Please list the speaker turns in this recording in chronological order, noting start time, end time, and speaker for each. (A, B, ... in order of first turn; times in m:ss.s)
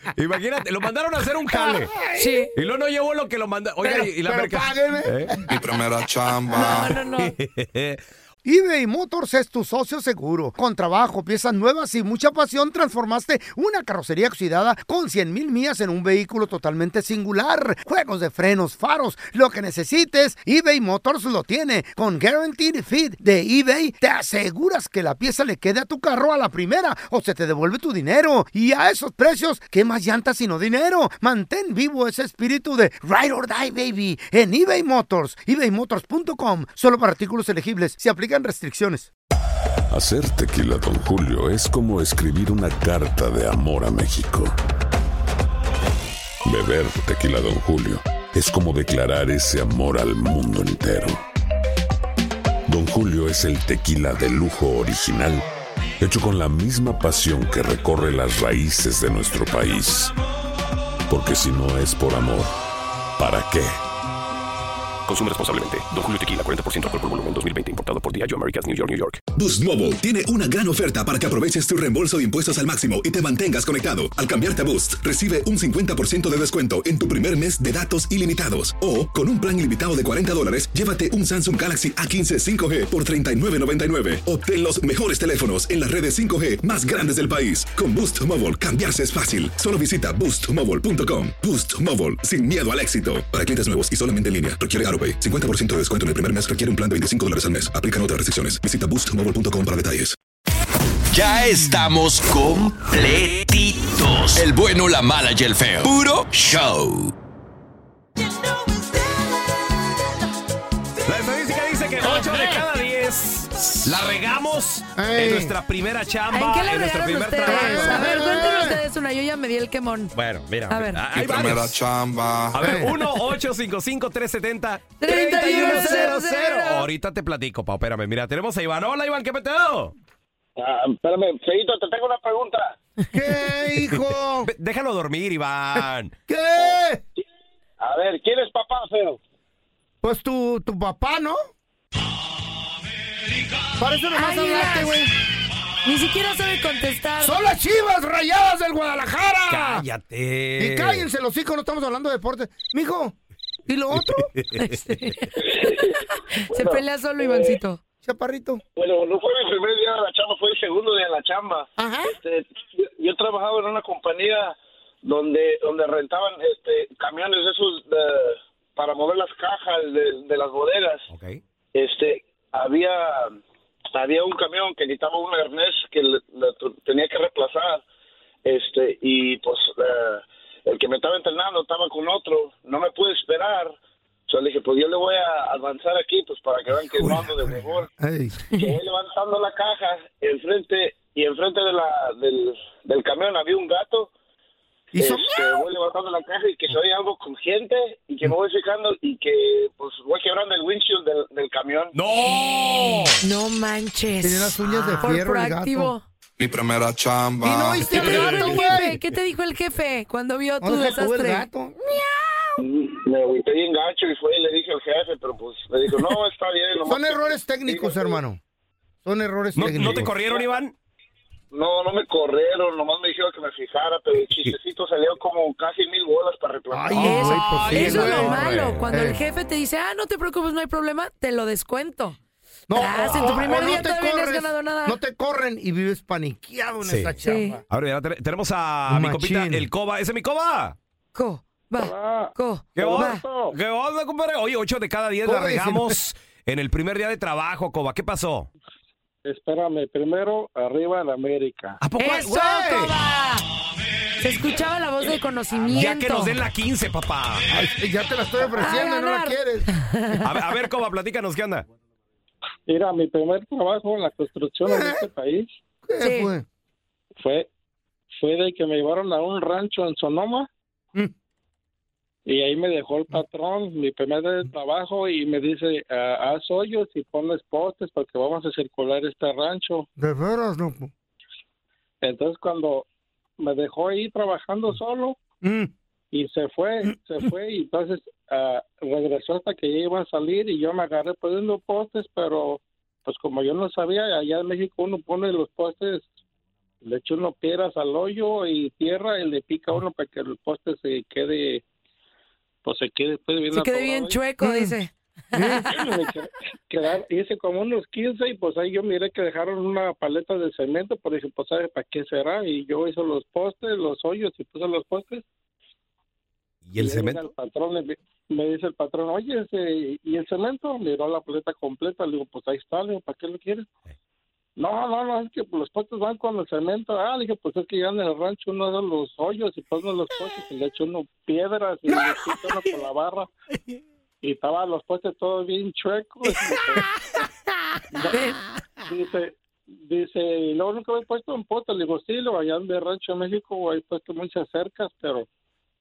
0:00.1-0:01.9 A
0:01.5-0:02.5 B
0:02.2-0:02.5 C
0:02.5-0:05.4 A
0:03.8-0:05.7 B
0:05.5-0:06.9 D
0:06.5-0:07.3 C
0:06.6-0:08.0 A
0:08.4-0:39.1 B
0:39.9-0:44.5 E
0:46.4-0:51.2 E
0:52.7-0:55.4 E
0:56.0-1:00.1 E
1:01.1-1:02.5 E
1:03.2-1:03.8 E
1:05.0-1:09.2 F
1:09.3-1:40.2 G
1:41.1-1:47.1 H
1:51.0-1:58.2 A
1:52.0-1:52.6 B
1:55.0-1:55.6 B
1:56.3-2:00.1 C
1:57.4-1:58.8 B
2:00.1-2:01.8 A
2:00.7-2:01.0 C
2:01.1-2:02.8 D
2:02.5-2:09.9 A
2:02.6-2:02.9 B
2:05.0-2:06.8 C
2:05.1-2:06.2 B
2:10.6-2:12.8 I
2:13.1-2:14.5 B
2:14.4-2:16.1 A
2:16.3-2:17.0 B
2:17.8-2:19.2 I
2:20.0-2:21.4 B
2:23.8-2:25.1 B
2:24.1-2:25.0 C
2:25.8-2:27.4 C
2:27.2-2:29.8 B
2:29.5-2:31.1 A
2:30.6-2:33.2 B
2:33.7-2:34.3 B
2:34.1-2:34.6 A
2:34.5-2:37.8 C
2:35.4-2:36.0 I
2:36.5-2:37.6 I
2:38.0-2:38.6 B
2:38.8-2:51.0 I
2:41.8-2:42.2 B
2:51.1-2:51.4 A
2:51.7-2:53.4 I
2:53.9-2:57.8 I
2:58.4-3:03.8 I
3:04.3-3:07.9 I
3:06.9-3:08.4 B
3:08.5-3:14.1 I
3:14.9-3:15.7 B
3:15.0-3:21.9 I
3:21.9-3:23.2 A
3:23.2-3:26.0 C
3:24.2-3:25.9 B
3:26.4-3:27.9 D
3:27.4-3:29.0 B
3:27.9-3:31.5 C
3:28.0-3:28.5 A
3:30.6-3:32.0 B
3:32.6-3:38.1 I
3:36.8-3:38.4 B
3:39.0-3:40.1 B
3:39.5-3:40.7 A
3:40.2-3:40.5 I
3:41.5-3:47.1 I
3:46.7-3:49.2 B
3:47.0-3:52.2 C
3:47.0-3:48.9 A
3:52.7-3:57.6 B
3:52.7-3:55.0 C
3:56.8-3:57.2 A
3:57.2-3:57.6 C
3:57.7-4:00.8 A
3:58.9-3:59.7 B
4:01.1-4:03.2 C
4:01.8-4:03.5 J
4:02.7-4:08.5 A
4:05.2-4:06.0 B
4:09.2-4:11.8 J
4:11.8-4:12.9 A
4:12.0-4:13.4 C
4:14.2-4:16.4 C
4:15.7-4:17.5 A
4:17.5-4:19.7 B
4:18.6-4:20.3 C
4:20.2-4:21.6 A
4:22.7-4:25.5 J
4:24.7-4:25.0 B
4:25.8-4:26.4 B
4:26.0-4:26.3 C
4:27.2-4:27.5 J
4:28.1-4:30.5 J
4:32.2-4:39.9 J
4:40.0-4:40.9 B
4:42.0-4:42.8 J
4:43.4-4:45.2 J
4:45.4-4:45.7 B
4:46.1-4:56.1 J
4:56.8-5:01.6 J
5:02.6-5:04.2 J
5:03.5-5:05.8 C
5:04.4-5:04.7 B
5:05.3-5:05.7 B
5:05.6-5:15.2 J
5:16.6-5:17.3 A
5:16.8-5:23.7 J
5:24.6-5:33.3 J
5:34.2-5:36.8 J
5:38.1-5:38.4 C
5:38.9-5:45.2 J